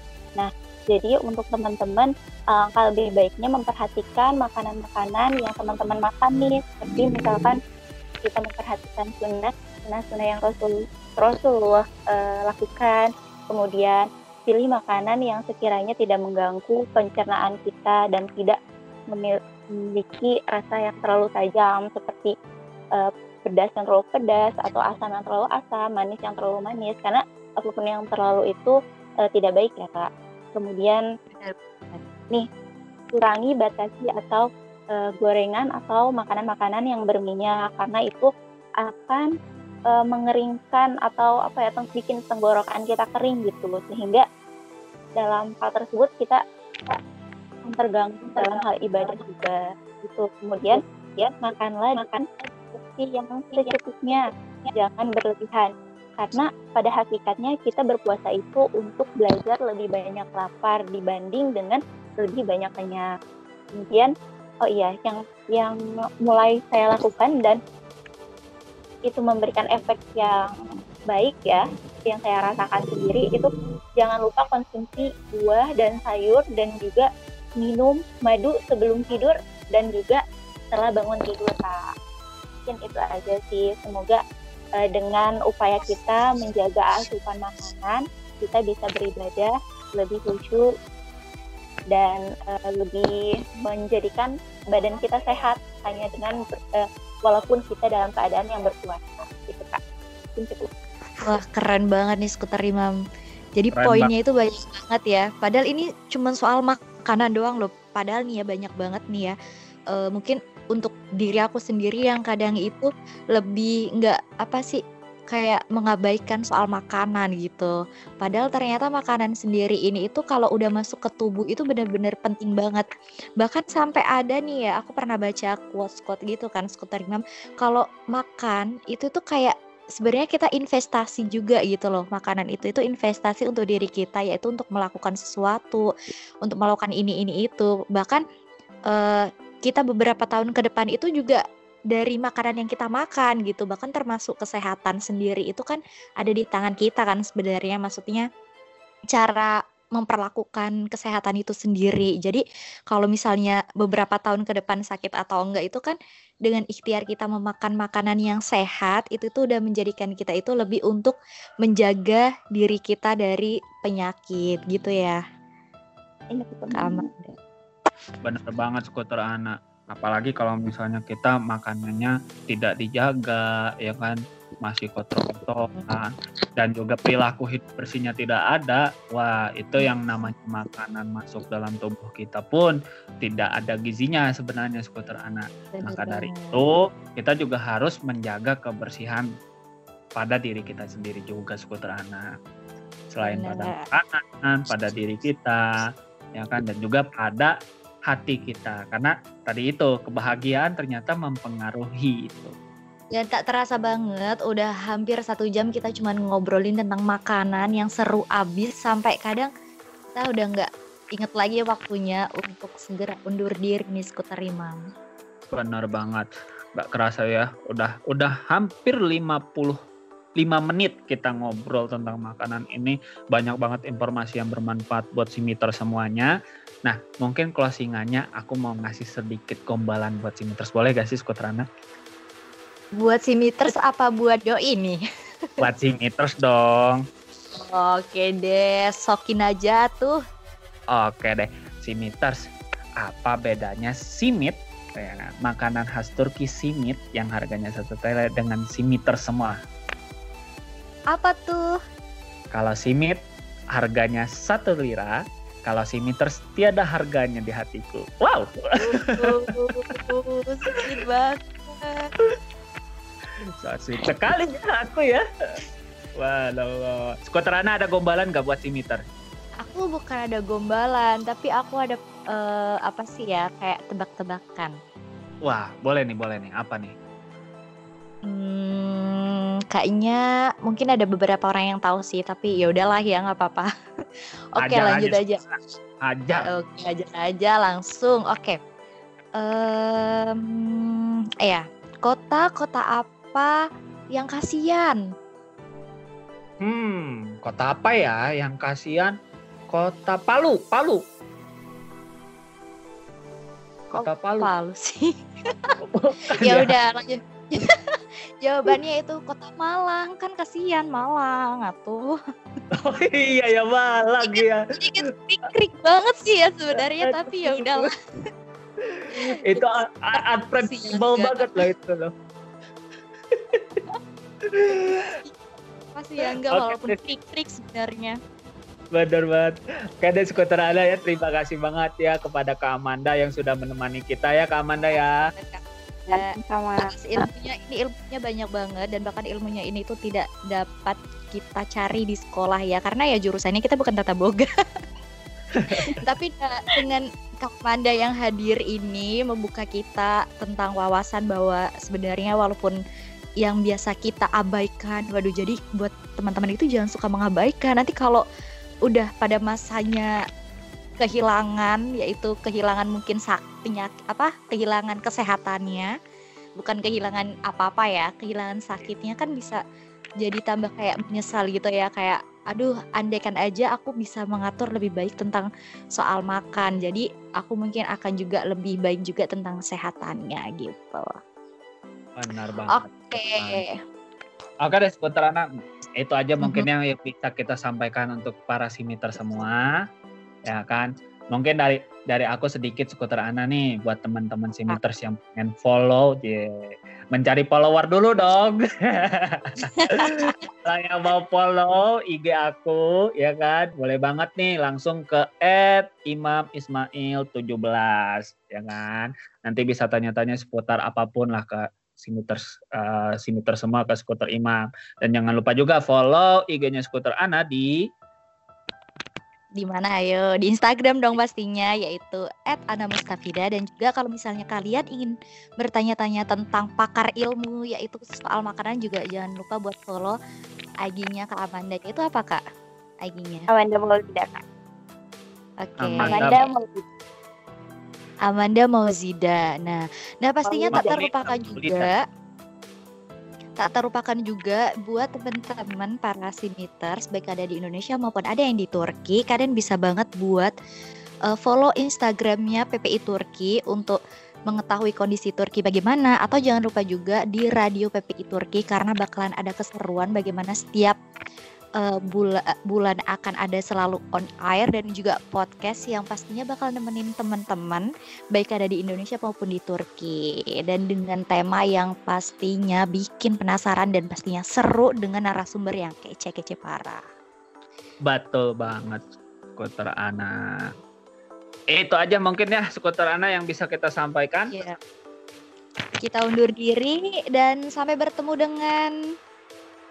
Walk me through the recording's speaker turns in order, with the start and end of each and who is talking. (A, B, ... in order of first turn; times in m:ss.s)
0:00.4-0:07.6 A
0:08.2-0:18.6 A
0:19.1-0:22.3 A
0:23.0-0:28.8 A
0:29.3-0:31.0 A
0:31.3-0:32.0 B
0:33.1-0:38.3 A
0:38.8-0:39.3 A
0:39.9-0:44.2 A
0:45.2-0:47.0 A
0:47.6-1:03.1 A
1:03.8-1:04.1 A
1:04.6-1:07.6 A
1:09.1-1:10.4 A
1:11.1-1:21.8 A
1:22.7-1:24.2 A
1:24.8-1:30.6 A
1:31.9-1:39.8 A
1:40.3-1:40.7 A
1:41.2-1:42.9 B
1:43.6-1:49.4 B
1:43.7-1:44.1 C
1:49.9-1:54.8 B
1:55.3-2:02.9 B
2:03.4-2:15.9 B
2:16.4-2:18.2 B
2:18.9-2:28.2 B
2:29.1-2:36.0 B
2:36.5-2:45.2 B
2:46.3-2:47.1 A
2:46.8-2:47.4 B
2:48.2-3:09.3 C
2:59.8-3:00.3 B
3:05.7-3:06.6 B
3:10.2-3:12.3 C
3:13.1-3:15.6 C
3:13.2-3:13.8 B
3:16.4-3:17.5 C
3:18.1-3:22.6 C
3:23.1-3:29.5 B
3:30.1-3:34.8 B
3:35.5-3:39.8 C
3:40.4-3:46.3 C
3:46.8-3:51.7 C
3:53.0-3:55.0 B
3:55.6-3:57.0 C
3:57.5-4:00.2 B
4:00.9-4:09.6 C
4:11.1-4:11.8 B
4:12.5-4:13.2 C
4:13.7-4:20.0 C
4:18.8-4:22.1 B
4:23.6-4:25.2 C
4:26.2-4:29.0 C
4:29.6-4:34.7 B
4:35.4-4:36.9 C
4:38.3-4:43.7 B
4:44.6-4:45.4 B
4:44.6-4:46.5 C
4:46.4-4:48.6 B
4:49.4-4:53.6 B
4:54.1-4:55.0 B
4:56.6-4:59.1 C
4:59.7-5:01.0 C
5:03.9-5:04.5 C
5:04.0-5:05.8 B
5:05.8-5:06.7 C
5:06.4-5:12.1 B
5:12.7-5:15.0 C
5:14.2-5:17.9 B
5:16.8-5:17.9 C
5:18.8-5:22.1 C
5:19.2-5:21.6 B
5:23.3-5:23.8 C
5:24.5-5:25.2 C
5:24.7-5:25.3 B
5:26.0-5:28.2 B
5:26.3-5:27.0 C
5:28.9-5:35.2 C
5:34.8-5:36.3 B
5:36.1-5:37.3 A
5:36.8-5:44.5 B
5:45.6-5:45.9 C
5:46.0-5:52.8 B
5:53.4-5:58.2 B
5:58.9-6:00.1 B
6:01.0-6:05.9 B
6:06.6-6:09.6 B
6:10.2-6:21.1 B
6:22.2-6:23.6 C
6:22.7-6:23.7 B
6:24.6-6:25.5 C
6:26.0-6:29.7 C
6:26.4-6:26.7 B
6:30.5-6:57.7 C
6:39.9-6:40.4 B
6:59.6-7:10.2 B
7:10.8-7:12.4 B
7:13.0-7:13.5 B
7:13.5-7:14.4 A
7:15.6-7:16.5 B
7:15.8-7:16.4 C
7:16.0-7:16.8 A
7:18.2-7:22.0 B
7:20.4-7:21.0 A
7:20.8-7:21.9 C
7:23.6-7:30.5 B
7:31.3-7:34.0 B
7:34.5-7:41.0 B
7:41.8-7:57.0 B
7:58.1-7:59.0 C
7:59.6-8:00.7 C
8:01.7-8:04.5 C
8:04.5-8:04.8 B
8:06.0-8:08.9 B